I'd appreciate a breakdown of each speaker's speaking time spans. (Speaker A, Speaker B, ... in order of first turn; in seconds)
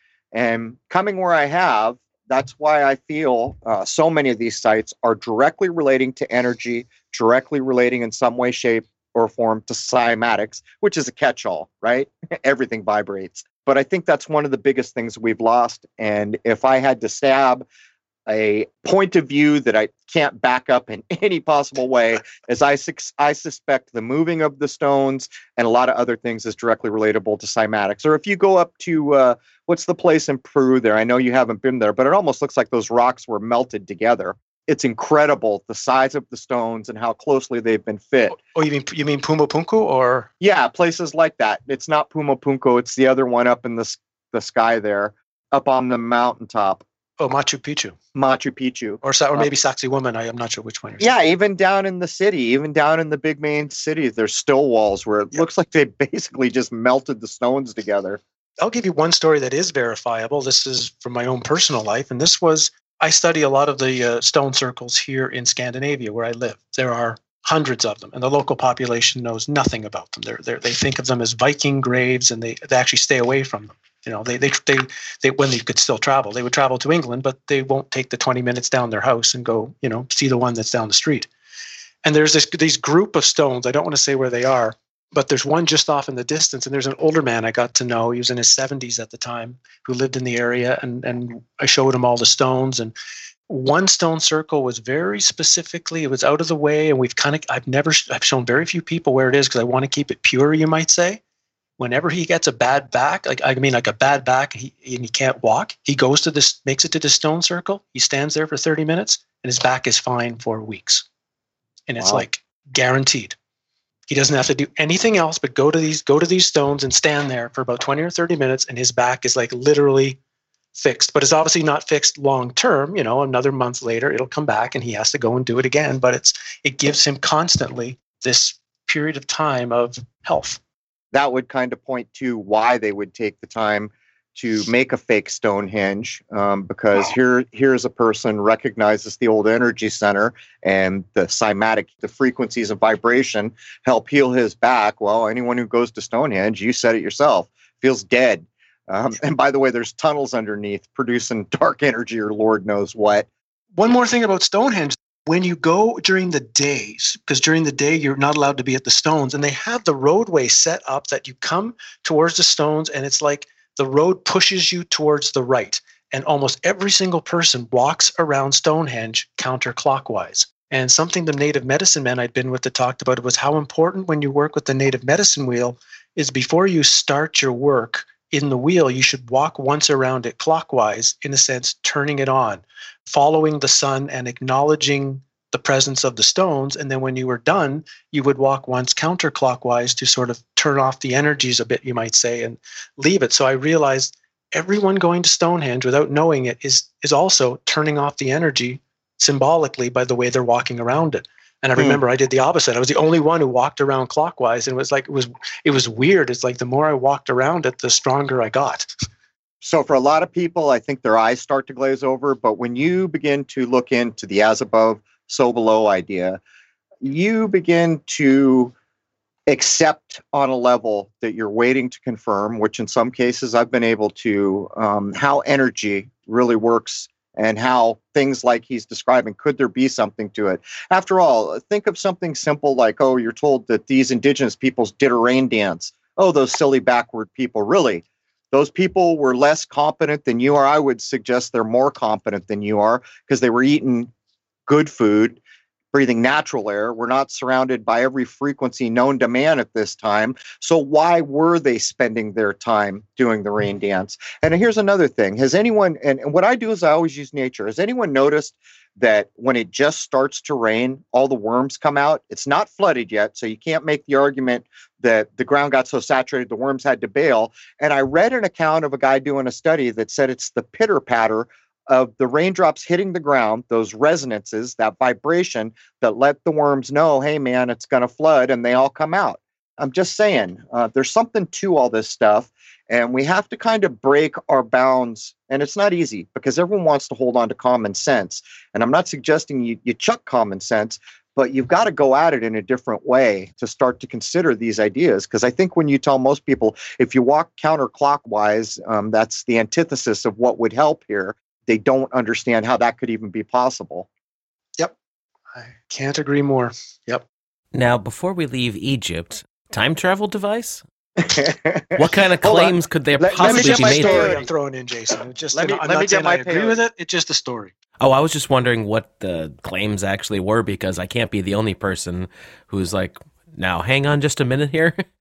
Speaker A: 0.3-17.7, 18.3-38.4, 40.4-46.8, 48.1-49.5, 51.0-58.2, 131.1-153.3, 201.8-202.0, 209.6-216.4, 217.0-218.7, 219.5-244.1, 244.7-245.4, 245.9-304.1, 311.2-314.4, 315.5-316.8
Speaker B: 38.3-40.3, 47.2-48.0, 49.0-51.1, 58.6-81.3, 82.0-92.9, 93.5-101.2, 101.8-111.0, 111.9-113.4, 114.1-120.2, 120.7-130.6, 153.8-208.9, 305.5-307.2, 313.4-317.7
Speaker C: 307.7-310.8, 311.9-314.4, 318.0-325.0